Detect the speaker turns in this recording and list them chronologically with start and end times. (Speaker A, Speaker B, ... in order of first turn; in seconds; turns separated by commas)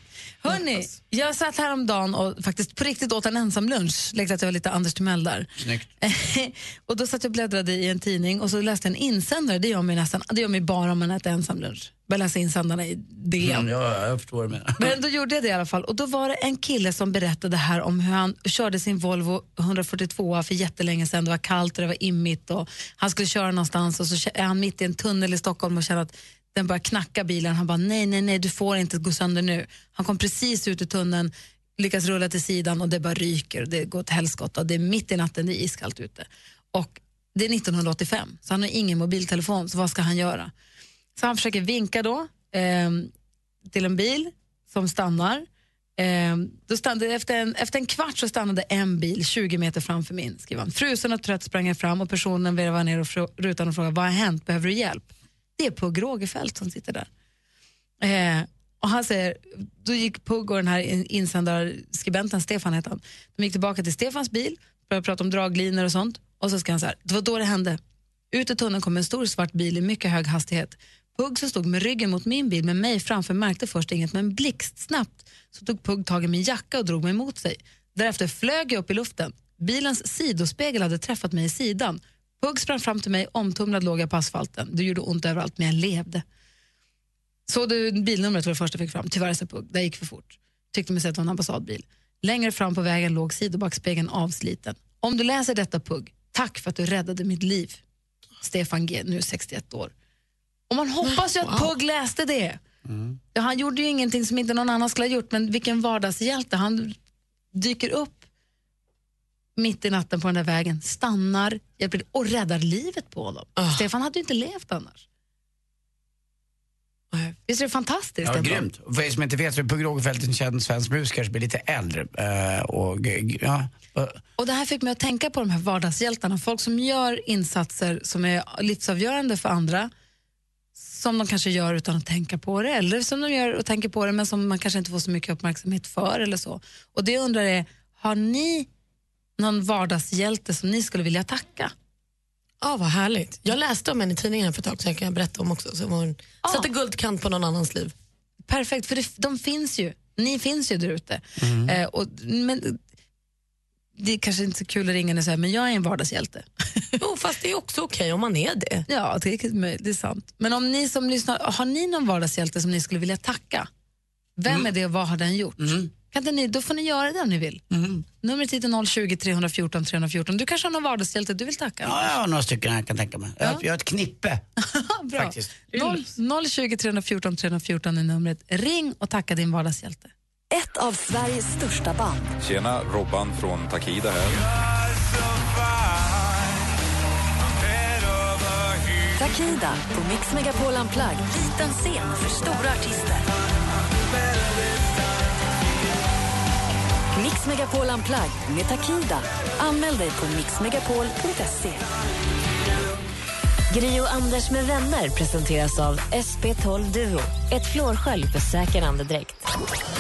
Speaker A: 0.4-5.5, Speaker B: 0.5-0.8, Speaker C: 5.6-5.9, Speaker A: 6.0-13.7, Speaker C: 13.4-15.0, Speaker A: 14.8-40.5, Speaker A: 41.2-43.1, Speaker A: 43.7-45.5, Speaker A: 46.0-57.1, Speaker A: 58.0-67.8, Speaker A: 68.3-86.2, Speaker A: 87.5-97.8, Speaker A: 98.4-99.9, Speaker A: 100.7-102.6, Speaker B: 101.1-101.7, Speaker C: 102.8-103.2, Speaker A: 103.3-107.0, Speaker A: 107.5-108.3, Speaker A: 109.6-115.1, Speaker B: 113.6-113.8, Speaker A: 117.5-118.6, Speaker C: 118.2-124.2, Speaker A: 124.4-129.9, Speaker A: 130.8-138.7, Speaker A: 139.4-141.7, Speaker B: 142.6-147.9, Speaker A: 146.4-146.7, Speaker A: 148.5-152.8, Speaker C: 151.4-151.8, Speaker A: 154.0-156.5, Speaker B: 157.0-158.8, Speaker A: 158.9-163.7, Speaker A: 164.4-167.6, Speaker C: 165.6-165.9, Speaker C: 167.7-168.0, Speaker A: 168.2-172.1, Speaker C: 171.8-174.4, Speaker A: 174.8-180.1, Speaker C: 175.2-175.9, Speaker D: 180.5-182.3, Speaker E: 182.4-184.4, Speaker D: 189.2-193.3, Speaker D: 197.1-201.9, Speaker D: 203.7-209.4